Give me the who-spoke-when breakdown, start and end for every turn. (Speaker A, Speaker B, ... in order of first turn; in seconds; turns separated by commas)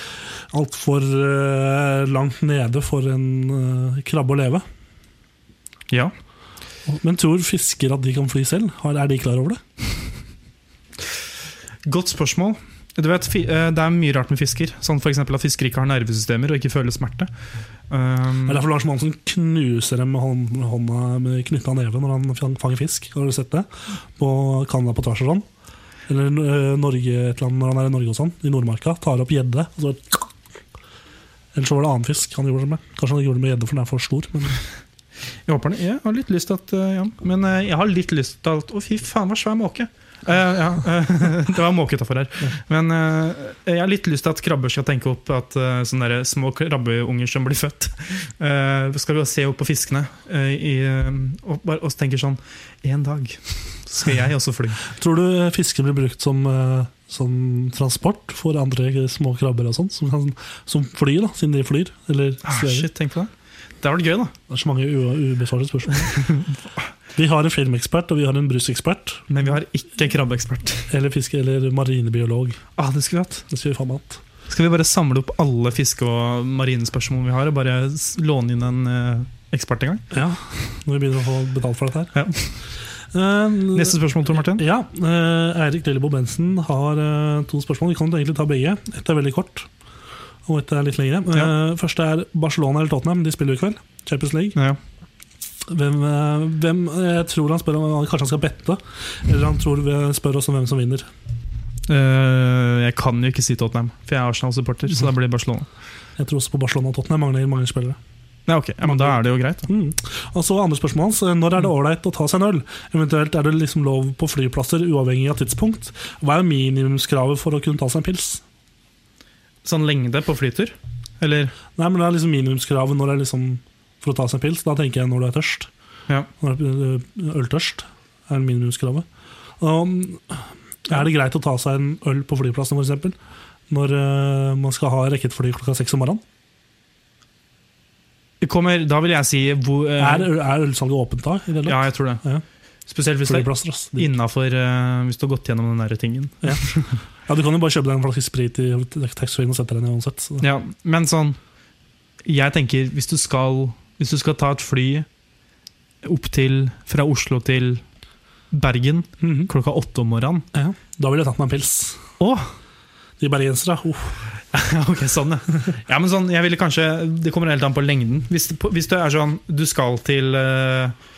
Speaker A: 0.5-4.6, Speaker A: 6.9-9.6, Speaker B: 11.8-17.3, Speaker B: 17.9-18.6, Speaker A: 18.5-25.4, Speaker A: 26.1-30.3, Speaker A: 31.5-34.6, Speaker B: 35.5-54.8, Speaker A: 54.9-62.9, Speaker B: 62.4-63.3, Speaker B: 63.8-64.3, Speaker A: 64.5-66.2, Speaker B: 66.2-66.4, Speaker A: 67.2-69.2, Speaker B: 69.3-70.9, Speaker A: 70.9-72.6, Speaker B: 72.8-73.4, Speaker A: 73.5-74.2, Speaker B: 74.5-80.0, Speaker A: 80.1-82.1, Speaker B: 82.1-82.4, Speaker A: 83.1-89.7, Speaker B: 83.7-84.6, Speaker A: 90.5-94.6, Speaker A: 95.7-101.1, Speaker B: 101.9-105.7, Speaker A: 106.2-108.0, Speaker B: 108.5-109.7, Speaker A: 108.8-118.4, Speaker B: 119.6-121.5, Speaker A: 121.8-125.7, Speaker A: 126.4-129.1, Speaker A: 129.6-133.2, Speaker A: 133.7-136.2, Speaker B: 138.4-140.3, Speaker A: 140.0-142.4, Speaker B: 141.7-142.2, Speaker B: 142.9-146.9, Speaker A: 143.2-144.1, Speaker A: 147.3-150.4, Speaker B: 150.4-151.4, Speaker B: 152.2-155.1, Speaker B: 156.0-157.8, Speaker B: 158.5-160.5, Speaker A: 159.2-159.5, Speaker A: 160.5-162.0, Speaker B: 162.2-162.5, Speaker A: 163.2-164.2, Speaker B: 164.5-170.9